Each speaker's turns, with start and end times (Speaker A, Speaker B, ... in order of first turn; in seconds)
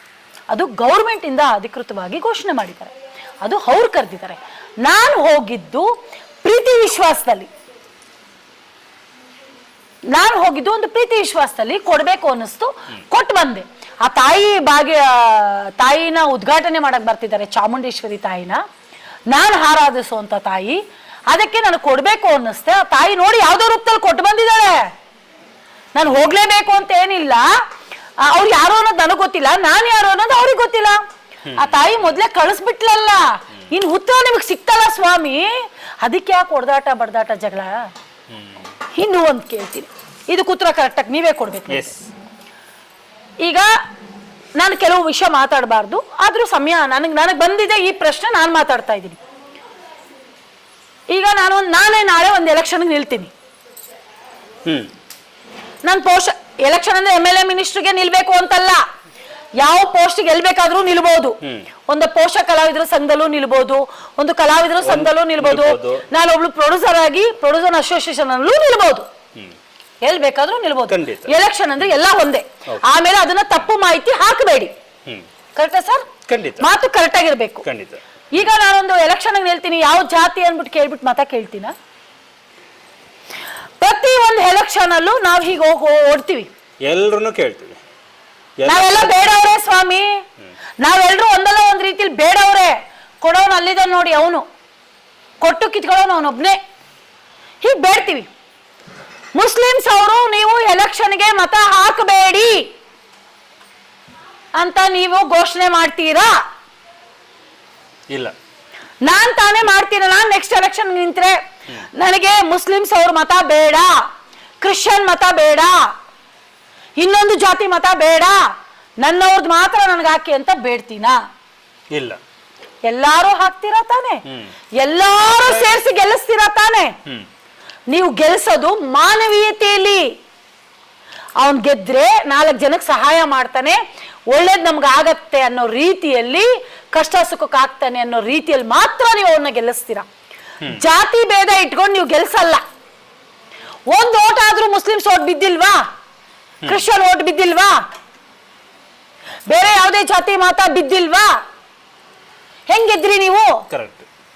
Speaker A: 0.5-5.9, 6.4-7.5, 10.1-18.6, 19.3-24.8, 25.9-27.5, 28.2-31.0, 31.6-37.9, 38.9-41.9, 43.4-43.7, 44.6-49.2, 51.1-53.3, 55.8-58.8, 59.6-69.1, 70.0-74.7, 75.6-76.1, 76.6-77.7, 78.3-81.7, 83.8-86.5, 88.7-90.2, 90.8-94.4, 95.4-96.6, 97.6-98.3, 99.3-102.7, 104.6-106.4, 109.0-111.4, 112.0-114.0, 114.6-115.8, 117.0-118.4, 119.0-121.2, 122.8-124.2, 124.8-126.9, 127.9-130.1, 131.4-133.8, 134.3-140.1, 140.7-142.6, 143.9-145.8, 146.7-147.8, 149.5-151.4, 152.7-153.6
Speaker B: 31.5-32.2, 38.3-38.7, 41.7-42.1, 64.8-66.1, 70.9-71.4, 76.3-76.7, 77.6-78.0, 86.9-87.8, 88.6-89.5, 121.9-122.2, 124.3-124.5, 125.3-125.8, 146.6-146.9, 153.7-154.1